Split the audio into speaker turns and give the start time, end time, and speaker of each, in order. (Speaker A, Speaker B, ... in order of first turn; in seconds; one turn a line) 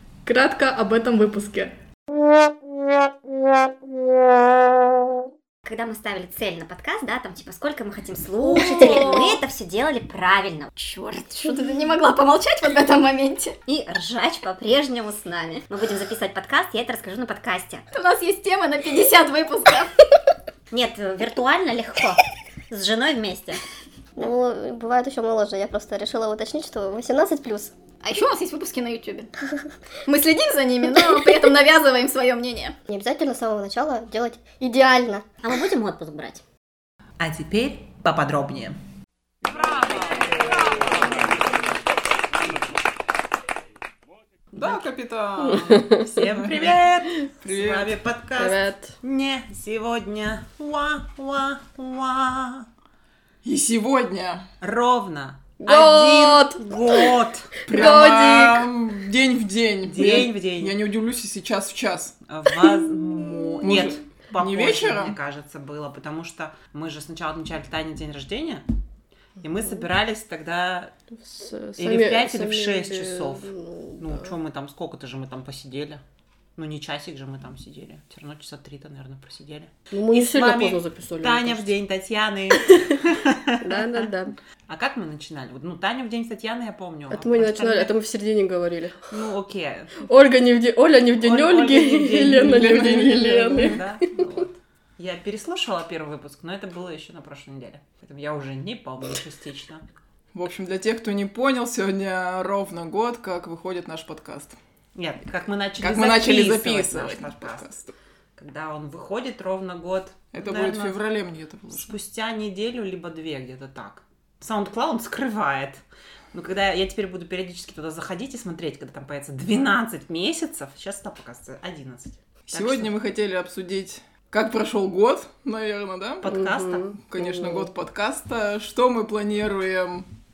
Speaker A: 0.2-1.7
Speaker B: 5.6-11.6
Speaker A: 8.4-9.3
Speaker C: 11.4-13.6
Speaker B: 13.7-17.9
Speaker C: 17.9-19.9
Speaker B: 20.7-23.6
Speaker D: 24.2-27.7
Speaker C: 28.0-29.3
Speaker C: 30.1-32.8
Speaker D: 32.9-35.4
Speaker B: 35.4-36.4
Speaker E: 37.2-38.8
Speaker F: 44.5-46.8
Speaker E: 44.5-44.8
Speaker A: 45.7-46.2
Speaker E: 46.1-52.7
Speaker F: 47.4-47.9
Speaker A: 48.4-48.9
Speaker F: 53.4-54.5
Speaker E: 54.6-57.5
Speaker A: 55.6-58.7
Speaker F: 57.6-62.1
Speaker E: 59.8-60.8
Speaker E: 62.3-68.6
Speaker F: 63.6-65.2
Speaker E: 69.4-70.9
Speaker A: 71.2-74.3
Speaker E: 71.8-76.0
Speaker E: 76.5-84.0
Speaker A: 79.9-81.7
Speaker A: 83.6-84.4
Speaker E: 84.7-87.9
Speaker A: 87.1-89.1
Speaker E: 89.1-90.0
Speaker A: 90.0-93.9
Speaker E: 91.2-99.8
Speaker F: 92.1-93.8
Speaker F: 100.3-104.5
Speaker E: 104.9-107.7
Speaker F: 105.8-107.9
Speaker E: 108.4-111.0
Speaker F: 110.3-111.9
Speaker E: 111.7-122.9
Speaker F: 122.5-126.3
Speaker E: 126.2-126.8
Speaker A: 126.3-127.7
Speaker F: 127.1-130.1